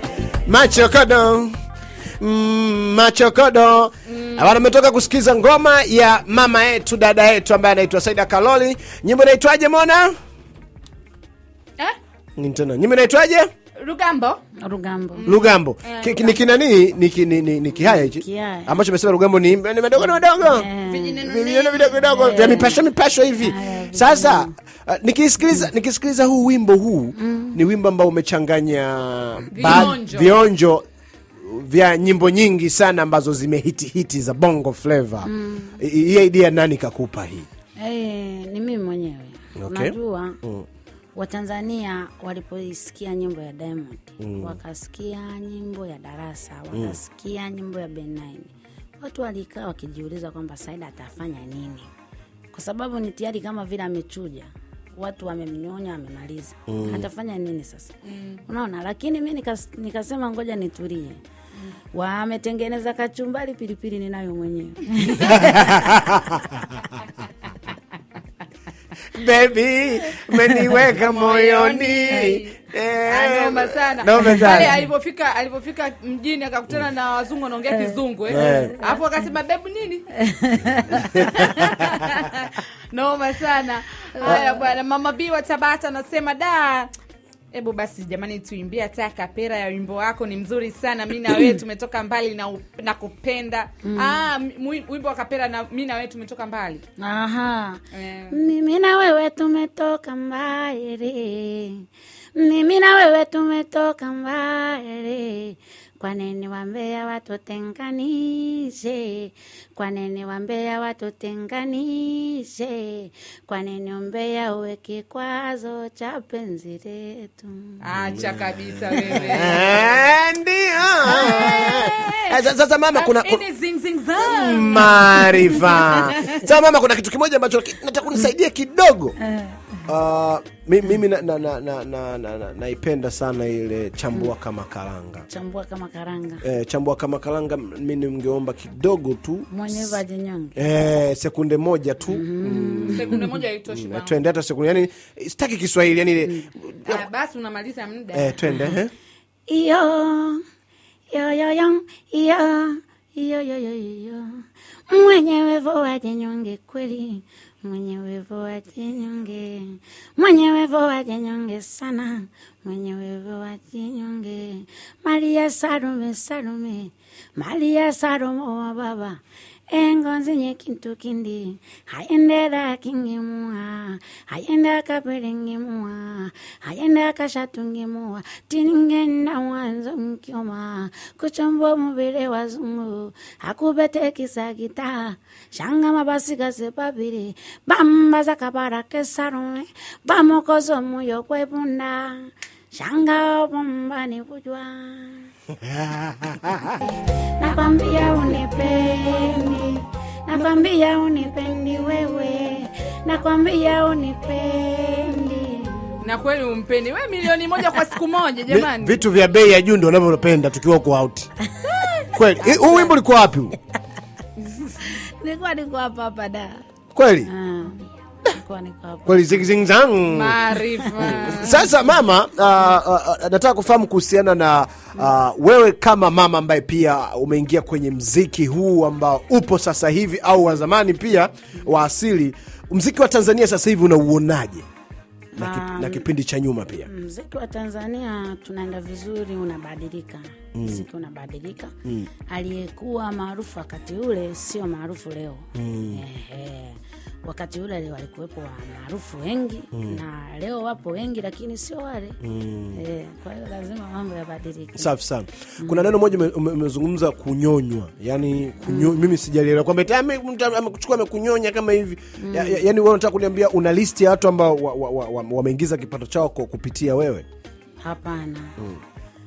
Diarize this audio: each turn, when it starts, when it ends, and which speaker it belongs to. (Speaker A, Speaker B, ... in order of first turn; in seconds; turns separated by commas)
Speaker A: 0.4-1.6, Speaker A: 2.2-10.1, Speaker B: 4.1-4.5, Speaker A: 12.4-13.5, Speaker B: 13.8-14.4, Speaker C: 14.6-15.3, Speaker B: 15.1-16.4, Speaker A: 15.2-20.7, Speaker C: 17.8-18.8, Speaker C: 20.4-21.2, Speaker B: 20.9-22.1, Speaker A: 21.2-30.8, Speaker C: 22.0-22.9, Speaker C: 23.4-24.5, Speaker C: 27.1-27.6, Speaker B: 29.5-30.4, Speaker A: 31.4-37.5, Speaker C: 35.2-35.8, Speaker C: 37.8-40.4, Speaker A: 39.6-40.6, Speaker C: 41.1-51.9, Speaker A: 44.2-44.5, Speaker C: 52.5-57.9, Speaker A: 56.7-57.1, Speaker B: 58.0-58.4, Speaker C: 58.5-61.2, Speaker C: 61.9-66.1, Speaker A: 65.2-66.8, Speaker A: 69.1-74.8, Speaker B: 70.8-80.1, Speaker C: 74.2-74.6, Speaker A: 78.3-78.8, Speaker C: 78.3-79.0, Speaker C: 80.1-81.9, Speaker A: 80.9-81.9, Speaker B: 81.3-86.9, Speaker C: 84.2-84.6, Speaker B: 87.5-96.8, Speaker C: 93.8-94.2, Speaker C: 97.0-117.8, Speaker B: 97.9-98.3, Speaker B: 117.8-119.8, Speaker A: 117.9-123.4, Speaker C: 119.0-119.6, Speaker B: 121.0-126.3, Speaker A: 124.2-129.2, Speaker C: 129.2-129.8, Speaker A: 129.9-135.3, Speaker C: 135.3-136.4, Speaker A: 136.4-140.0, Speaker C: 139.5-140.7, Speaker A: 140.6-147.0, Speaker C: 142.1-143.4, Speaker B: 142.8-144.2, Speaker C: 146.2-146.5, Speaker B: 146.8-148.6, Speaker A: 148.1-148.9, Speaker C: 149.5-150.4, Speaker C: 151.1-195.3, Speaker A: 195.6-196.8, Speaker C: 197.2-206.0, Speaker B: 206.0-209.0, Speaker A: 208.5-211.3, Speaker C: 211.5-213.0, Speaker A: 212.1-213.5, Speaker C: 214.6-216.6, Speaker A: 216.9-217.3, Speaker C: 217.2-219.4, Speaker A: 219.1-220.4, Speaker B: 220.1-221.7, Speaker C: 220.8-221.3, Speaker A: 221.0-234.7, Speaker C: 235.3-236.1, Speaker A: 235.4-236.9, Speaker C: 236.8-241.7, Speaker A: 240.5-240.9, Speaker C: 242.3-252.2, Speaker A: 245.5-246.0, Speaker A: 249.7-250.0, Speaker A: 252.2-252.8, Speaker C: 252.7-254.9, Speaker A: 254.8-267.2, Speaker C: 255.6-255.9, Speaker C: 258.6-259.0, Speaker C: 262.2-262.6, Speaker C: 267.8-268.5